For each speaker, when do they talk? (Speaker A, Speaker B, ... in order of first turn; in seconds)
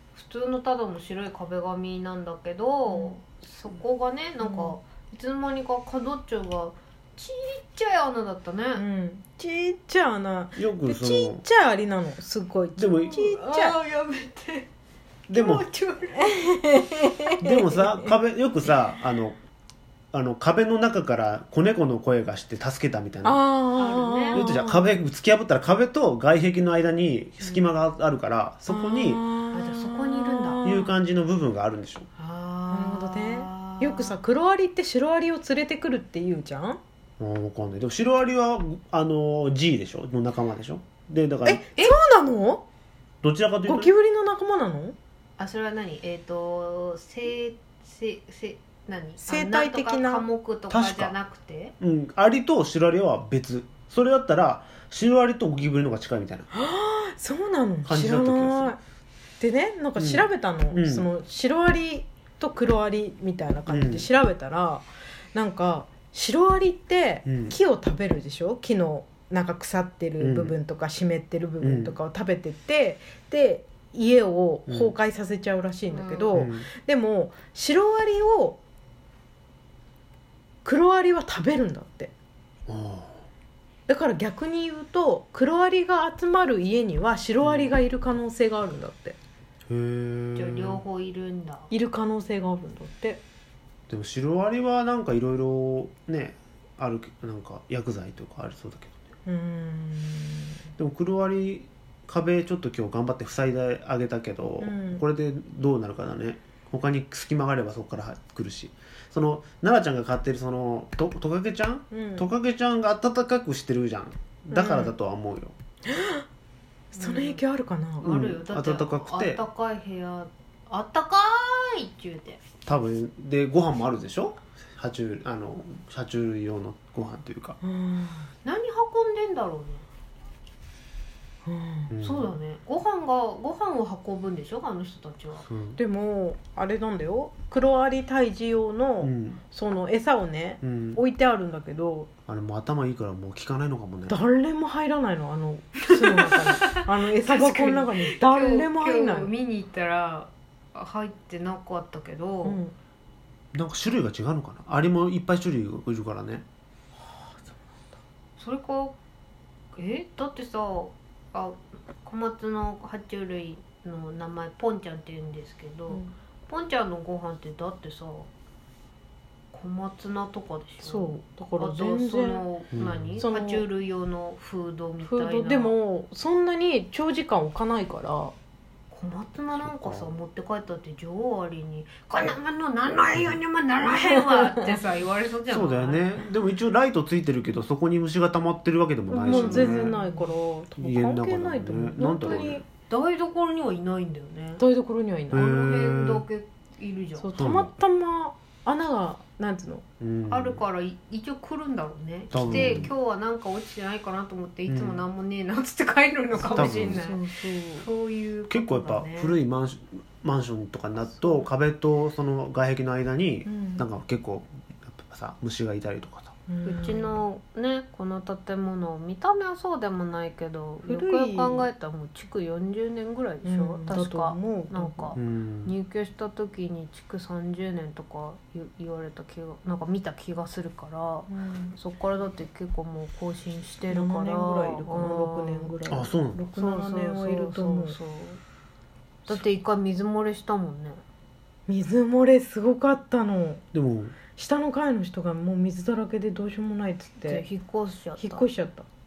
Speaker A: 0.1-8.8, 12.9-14.7, 15.3-16.5, 23.8-24.5, 27.4-27.7, 29.5-30.6, 32.2-34.2, 45.4-51.7, 75.9-76.4, 90.4-91.7, 117.0-117.4, 118.0-122.4, 128.4-129.8, 132.0-135.4, 146.0-152.6, 158.4-159.0, 159.8-168.3, 169.5-175.8, 178.9-186.2, 189.2-190.0, 192.3-194.6, 195.3-197.4, 200.3-209.4, 216.6-235.8, 236.5-238.4, 239.3-241.0, 247.3-248.4
Speaker B: 2.9-3.1, 4.4-4.7, 8.8-13.8, 16.3-18.1, 23.2-25.0, 28.7-30.9, 32.7-36.8, 41.5-42.6, 43.6-45.0, 49.2-50.2, 56.5-58.8, 59.4-78.6, 80.7-82.1, 83.9-89.2, 91.7-93.2, 99.3-100.6, 104.6-105.0, 111.9-112.3, 114.5-114.9, 115.9-116.2, 116.9-118.1, 127.6-128.3, 131.5-131.9, 135.8-142.1, 144.1-149.3, 152.4-152.7, 157.1-157.6, 170.8-172.4, 173.2-173.7, 175.0-178.3, 189.1-192.6, 194.6-195.5, 197.2-199.8, 202.4-202.7, 206.4-207.9, 213.5-213.9, 216.5-217.2, 220.8-221.7, 223.4-225.2, 231.3-231.8, 233.9-238.0, 241.7-243.6, 244.3-247.4, 248.2-248.8
Speaker C: 10.6-11.4, 12.8-13.3, 15.3-15.7, 17.4-19.4, 20.1-23.5, 24.3-29.2, 30.6-32.1, 37.2-41.6, 43.2-43.9, 50.7-51.1, 51.8-56.5, 57.9-58.7, 60.0-61.1, 63.7-64.1, 67.3-67.6, 70.2-70.5, 71.6-72.0, 74.7-75.0, 76.3-76.7, 82.7-83.2, 87.4-87.7, 89.7-90.8, 93.9-99.0, 100.8-115.5, 118.0-119.4, 122.7-127.6, 131.9-132.3, 135.5-135.8, 139.0-139.4, 140.6-141.0, 142.3-144.2, 153.5-156.4, 172.7-173.2, 179.6-180.1, 185.5-190.1, 190.8-192.6, 195.3-196.2, 197.4-197.7, 200.0-200.6, 202.3-202.9, 204.7-205.1, 206.4-207.1, 208.5-216.3, 225.2-225.7, 235.9-236.4, 243.7-244.2